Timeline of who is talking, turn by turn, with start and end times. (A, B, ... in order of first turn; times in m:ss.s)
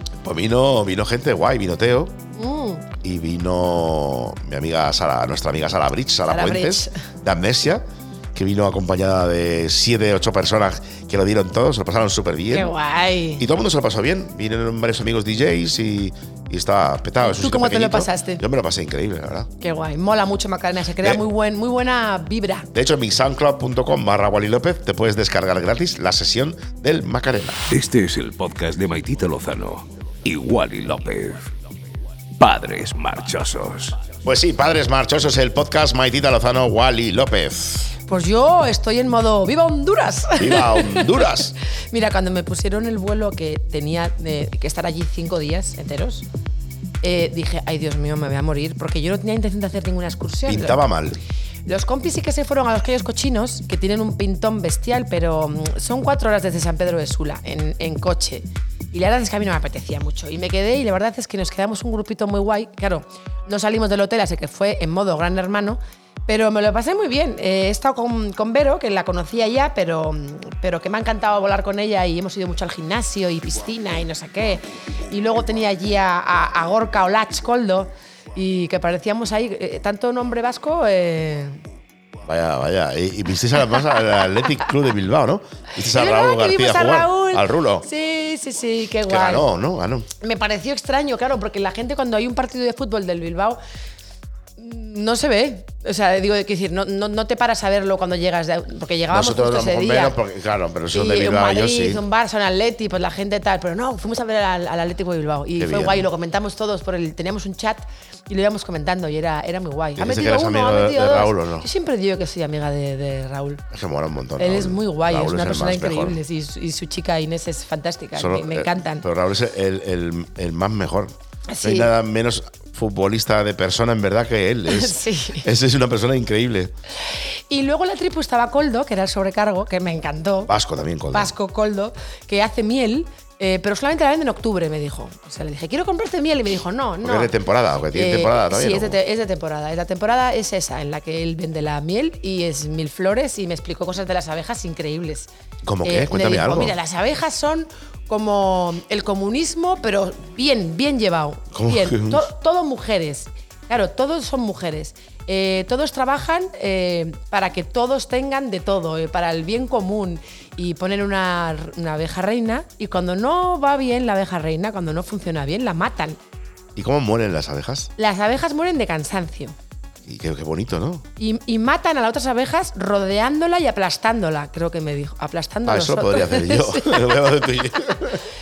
0:00.2-0:02.1 A
0:02.3-0:02.9 B
0:03.0-0:12.7 A
0:06.3-0:07.0 B
0:12.5-0:13.4 B
0:13.4-0:19.5 A
0:17.2-0:18.4 B
0:19.6-0:22.7 B
0:22.7-0:27.6 A
0:27.7-0:31.4 C
0:32.4-0:34.0 C
0:34.2-0:37.9 A
0:38.1-0:41.4 B
0:40.4-0:41.5 A
0:41.9-0:46.2 B
0:47.0-0:50.8 B
0:50.4-0:51.2 A
0:51.7-1:21.6 B
1:22.2-1:27.8 A
1:25.8-1:29.5 B
1:29.0-1:30.1 A
1:30.2-1:33.6 B
1:34.6-1:40.2 B
1:39.1-1:42.0 A
1:40.9-1:53.6 B
1:45.6-1:46.1 A
1:50.0-1:51.7 A
1:53.7-1:56.2 A
1:54.4-1:59.0 B
1:58.2-2:06.7 A
2:01.5-2:01.9 B
2:04.7-2:05.5 B
2:07.0-2:10.5 B
2:10.5-2:11.3 A
2:11.1-2:17.3 B
2:17.0-2:19.0 A
2:17.9-2:25.3 B
2:25.6-2:26.7 A
2:25.8-2:46.2 B
2:31.5-2:32.2 A
2:46.8-2:47.9 A
2:48.0-2:49.6 B
2:50.0-2:51.0 A
2:51.2-2:57.4 B
2:55.6-2:58.2 A